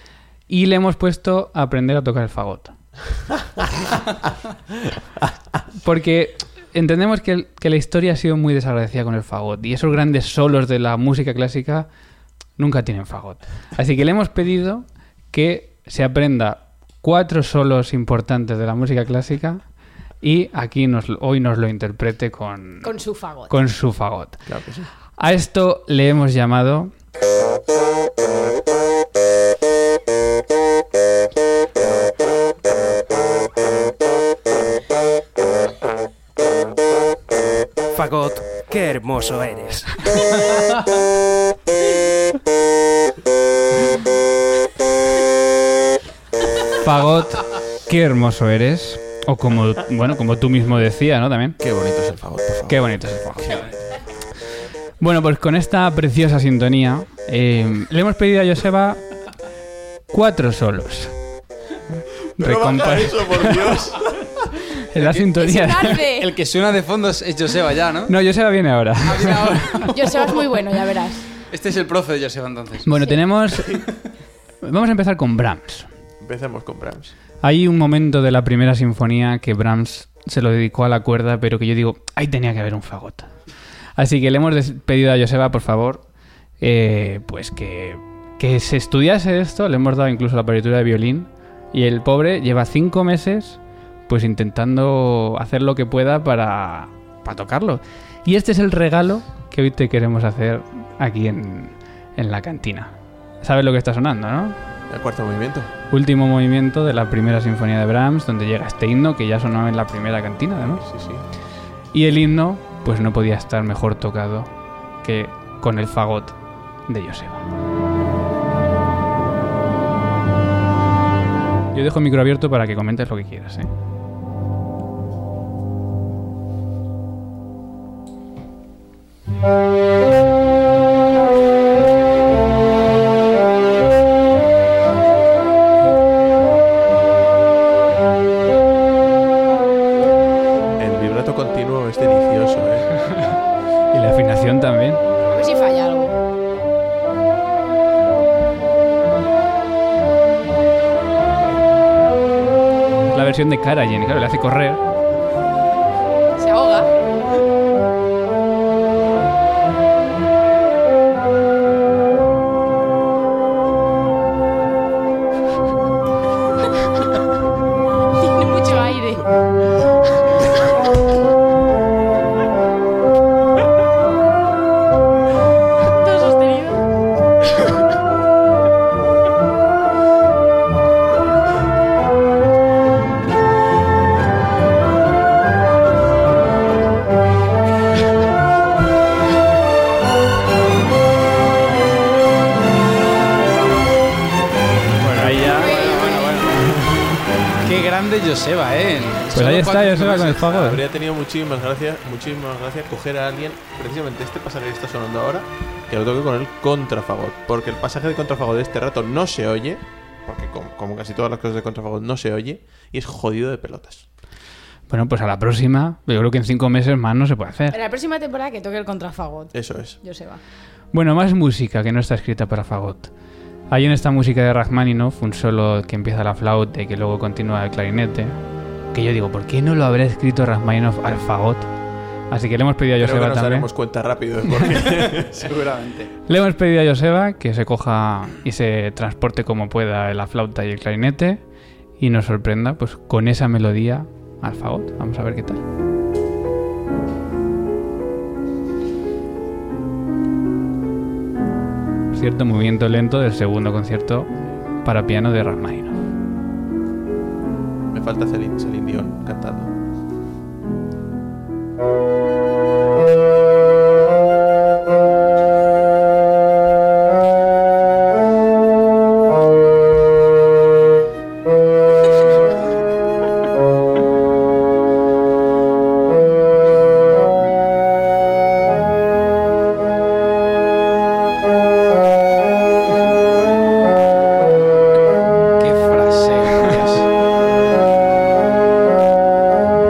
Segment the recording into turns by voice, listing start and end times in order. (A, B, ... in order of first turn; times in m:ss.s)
0:00.5-0:02.7 A
0:04.9-0:05.3 B
0:05.8-0:11.9 A
0:12.6-0:19.6 A
0:20.2-0:22.9 A
0:22.8-0:23.5 C
0:23.5-0:24.4 A
0:24.5-0:24.9 B
0:25.2-0:26.9 A
0:37.9-0:40.0 D
0:46.8-0:51.6 A
0:51.6-0:53.7 B
0:52.7-0:53.7 A
0:55.0-0:59.0 A
1:00.1-1:01.2 A
1:02.4-1:03.8 A
1:02.4-1:04.3 B
1:04.9-1:06.0 A
1:05.0-1:05.3 E
1:05.4-1:06.3 C
1:06.0-1:08.1 E
1:08.1-1:09.9 A
1:09.0-1:10.3 E
1:09.9-1:11.3 C
1:11.5-1:12.9 E
1:12.8-1:13.8 A
1:14.6-1:15.9 A
1:16.2-1:17.1 B
1:17.4-1:23.3 A
1:24.0-1:26.0 A
1:26.6-1:44.6 A
1:44.9-1:45.7 B
1:45.9-1:50.8 A
1:50.6-1:51.2 B
1:51.9-1:54.5 A
1:55.0-1:57.5 A
2:01.7-2:03.7 A
2:20.8-2:22.9 B
2:23.9-2:25.0 A
2:25.3-2:26.2 C
2:33.1-2:34.8 A
2:36.4-2:36.9 C
2:48.2-2:49.3 C
2:55.9-2:56.8 C
3:15.0-3:15.7 A
3:15.1-3:16.6 E
3:15.6-3:16.3 C
3:17.6-3:20.8 E
3:19.3-3:20.8 A
3:20.5-3:34.0 B
3:34.9-3:37.8 A
3:37.7-3:40.4 C
3:39.5-3:40.0 B
3:40.9-3:43.1 A
3:43.7-3:48.4 A
3:48.9-3:51.7 A
3:52.3-3:53.7 A
3:53.0-3:55.5 B
3:55.4-3:56.1 E
3:56.3-4:01.4 A
4:02.0-4:05.6 A
4:12.1-4:14.3 A
4:14.8-4:16.0 A
4:17.9-4:19.7 B
4:45.6-4:47.1 E